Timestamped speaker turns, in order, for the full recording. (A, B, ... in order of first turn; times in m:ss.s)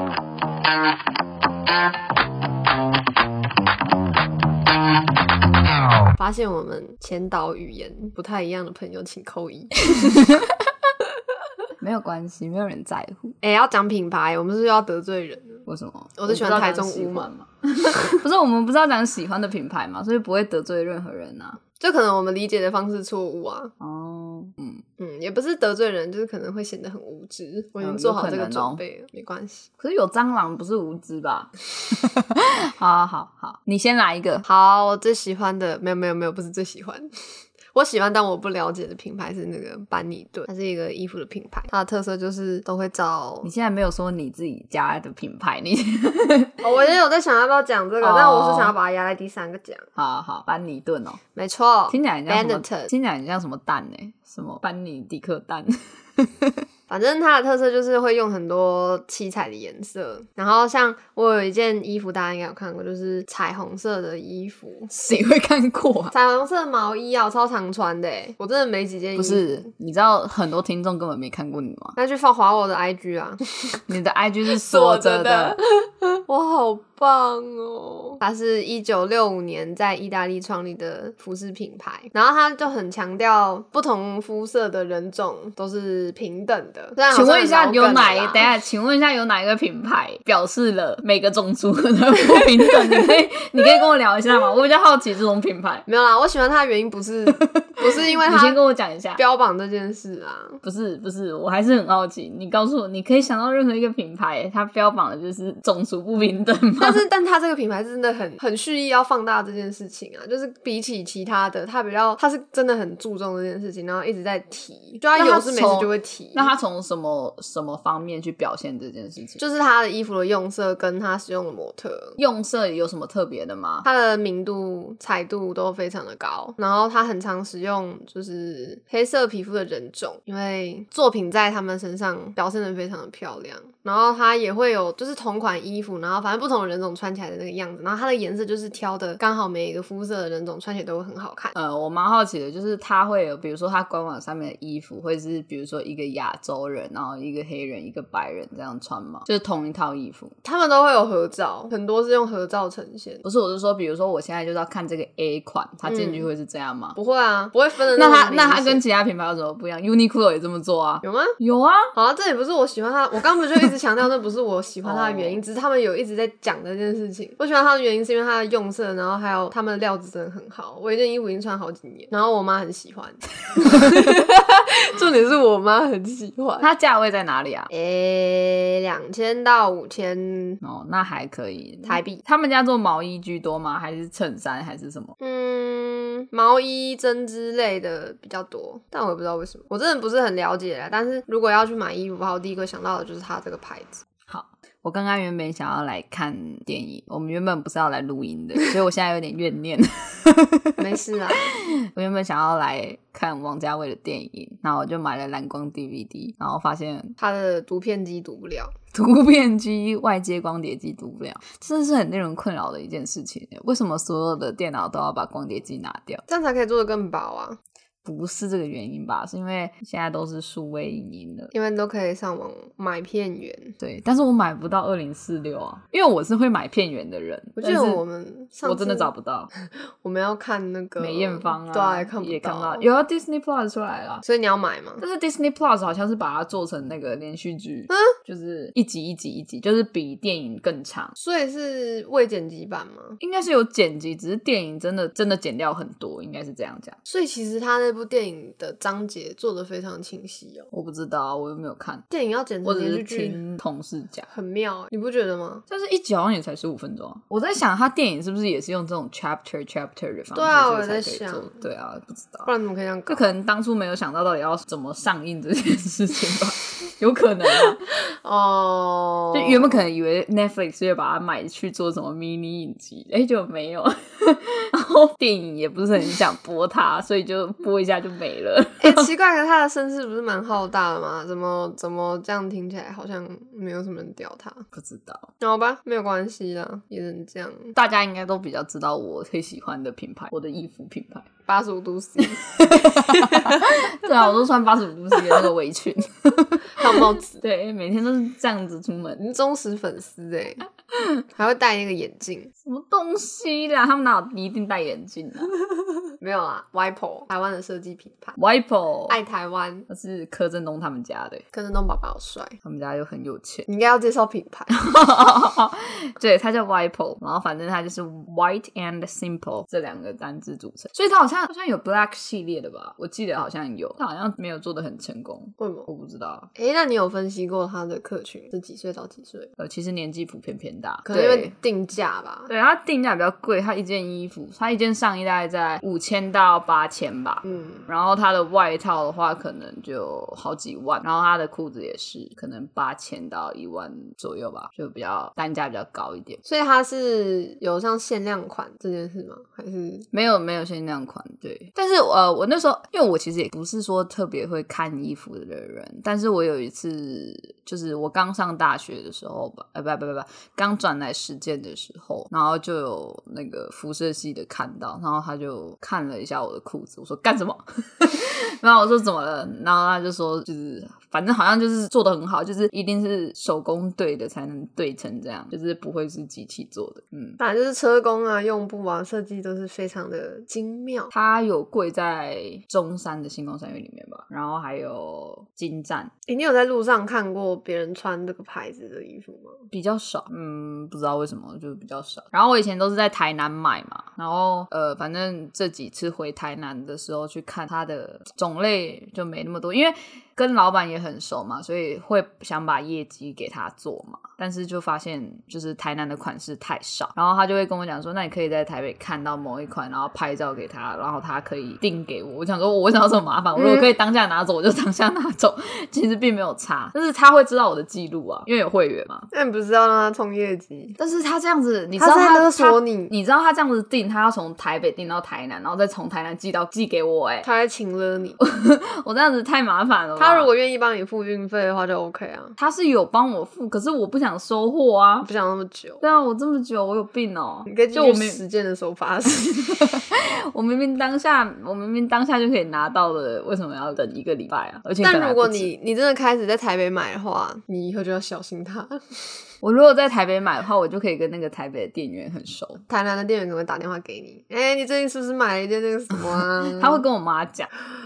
0:06.1-0:10.1 A
0:09.9-0:10.5 B
0:11.8-0:13.4 B
0:13.4-0:15.6 A
0:15.7-0:21.6 B
0:16.2-0:17.3 A
0:17.9-0:18.2 A
0:21.8-0:23.7 A
0:23.8-0:24.8 B
0:25.0-0:29.7 A
0:27.8-0:28.8 B
0:29.8-0:34.4 B
0:34.4-0:43.5 A
0:43.4-0:46.6 B
0:46.6-0:49.9 A
0:48.0-0:48.7 B
0:50.0-0:51.2 B
0:51.3-0:52.9 A
0:51.9-0:56.6 B
0:56.9-1:04.9 A
1:04.9-1:06.1 B
1:06.1-1:09.7 A
1:09.2-1:12.0 B
1:12.0-1:13.8 A
1:13.9-1:15.6 B
1:14.5-1:28.5 A
1:27.1-1:35.8 B
1:35.9-1:38.6 A
1:37.3-1:39.2 B
1:39.2-1:40.6 A
1:40.6-1:47.0 B
1:46.8-1:56.5 A
1:55.1-1:59.4 B
1:59.4-2:02.2 A
2:02.2-2:03.9 B
2:03.8-2:21.5 A
2:21.5-2:30.3 B
2:30.4-2:33.2 A
2:33.2-2:37.0 B
2:35.8-2:36.3 A
2:37.0-2:38.8 A
2:37.9-2:41.9 B
2:41.0-2:41.4 A
2:41.9-2:56.7 A
2:44.8-2:45.4 B
2:56.6-2:57.7 B
2:57.7-3:00.6 A
3:00.6-3:05.2 B
3:01.8-3:02.2 A
3:05.2-3:14.0 A
3:14.3-3:27.2 B
3:20.8-3:21.5 A
3:27.2-3:28.7 A
3:28.9-3:36.2 B
3:36.3-3:37.6 A
3:38.0-3:41.5 B
3:41.5-3:43.7 A
3:43.8-3:48.0 B
3:47.6-3:49.1 A
3:48.6-3:49.5 B
3:49.6-3:52.9 A
3:51.0-3:54.2 B
3:54.2-3:55.0 A
3:55.0-4:01.2 B
4:01.2-4:03.2 A
4:03.2-4:07.0 B
4:07.0-4:10.7 A
4:10.7-4:12.0 B
4:12.1-4:13.4 A
4:12.6-4:14.3 B
4:14.3-4:15.6 A
4:15.7-4:22.5 B
4:20.3-4:21.6 A
4:22.4-4:23.2 A
4:23.1-4:27.8 B
4:28.0-4:29.8 A
4:29.3-4:39.1 B
4:38.8-4:44.6 A
4:44.7-4:45.3 B
4:45.4-4:47.7 A
4:47.7-4:51.3 B
4:51.5-4:52.4 A
4:52.2-4:59.2 B
4:53.0-4:53.7 A
4:56.7-4:57.4 A
4:59.2-5:00.6 A
5:01.3-5:02.5 A
5:02.6-5:05.5 B
5:06.2-5:08.4 A
5:08.4-5:09.2 B
5:09.1-5:09.9 A
5:09.9-5:11.4 B
5:11.5-5:12.6 A
5:12.6-5:13.6 B
5:13.7-5:14.7 A
5:14.7-5:26.5 B
5:25.6-5:25.9 A
5:26.5-5:29.5 A
5:29.6-5:31.5 B
5:31.0-5:32.5 A
5:32.5-5:46.4 B
5:37.4-5:37.8 A
5:46.4-5:50.0 A
5:50.1-6:17.4 B
6:17.4-6:21.1 A
6:21.1-6:26.1 B
6:26.3-6:29.6 A
6:29.7-6:59.3 B
6:53.6-6:53.9 A
6:59.3-7:01.0 A
7:01.0-7:07.5 B
7:02.0-7:03.1 A
7:07.4-7:08.4 A
7:08.4-7:10.5 B
7:10.2-7:12.6 A
7:12.6-7:15.3 B
7:15.2-7:16.0 A
7:16.0-7:18.4 B
7:17.7-7:19.6 A
7:19.5-7:25.7 B
7:25.0-7:29.4 A
7:29.6-7:32.8 B
7:32.9-7:37.0 A
7:36.5-7:37.7 B